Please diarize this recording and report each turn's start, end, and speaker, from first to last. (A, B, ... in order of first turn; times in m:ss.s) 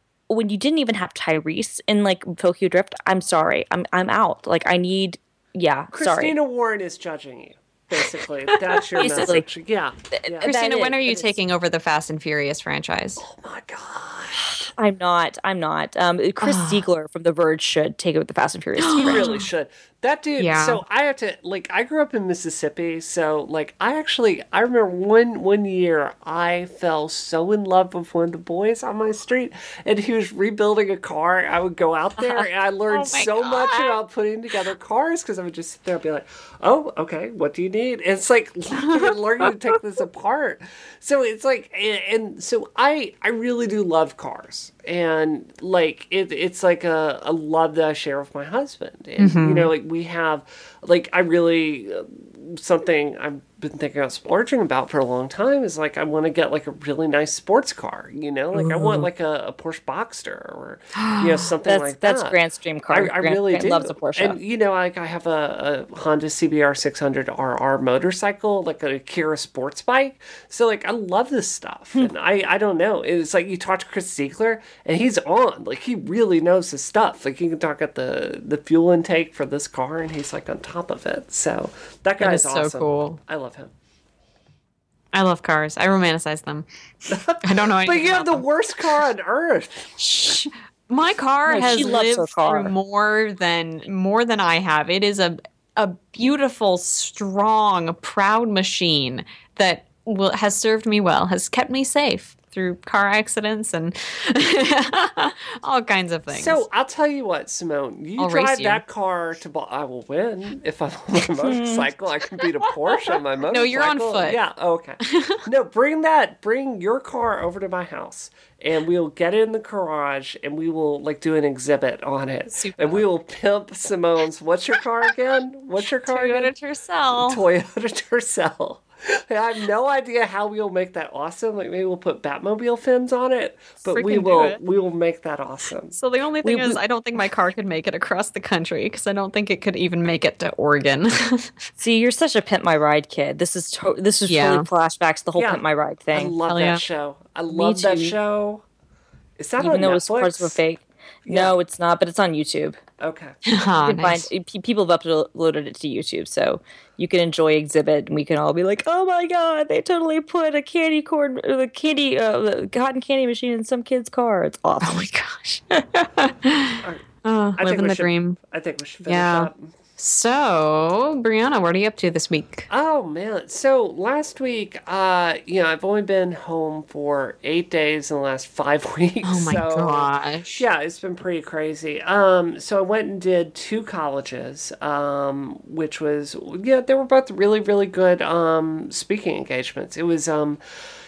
0:00.3-0:06.3 A
0:05.9-0:10.5 B
0:09.0-0:09.4 A
0:10.2-0:11.3 A
0:10.4-0:13.2 C
0:13.2-0:14.6 B
0:14.8-0:19.3 A
0:16.4-0:16.8 C
0:18.8-0:19.4 C
0:18.9-1:23.7 B
0:20.4-0:20.8 C
0:32.9-0:33.9 C
0:38.8-0:39.1 C
0:49.2-0:49.7 C
0:58.5-0:59.1 C
1:01.0-1:01.5 C
1:01.6-1:04.4 A
1:22.2-1:23.2 C
1:25.1-1:28.4 C
1:27.1-1:29.9 B
1:30.0-1:46.6 C
1:31.5-1:31.9 B
1:31.5-1:32.7 A
1:46.3-2:06.5 B
1:48.2-1:48.8 C
1:51.4-1:51.9 A
1:53.5-1:54.4 C
1:55.0-1:55.4 C
2:02.6-2:03.0 C
2:06.1-2:07.4 C
2:07.1-2:16.0 B
2:13.8-2:14.6 C
2:15.9-2:21.6 C
2:16.4-2:16.8 A
2:21.8-2:26.4 A
2:24.3-2:24.7 C
2:25.4-2:28.6 B
2:26.5-2:26.8 C
2:27.5-2:28.1 A
2:29.4-2:30.6 B
2:29.6-2:32.8 A
2:31.2-2:31.6 B
2:33.0-2:33.4 B
2:33.4-2:34.3 C
2:33.8-2:45.1 A
2:44.8-2:48.4 C
2:47.6-2:49.7 B
2:49.0-2:52.7 C
2:52.7-3:10.6 B
2:59.2-3:00.6 C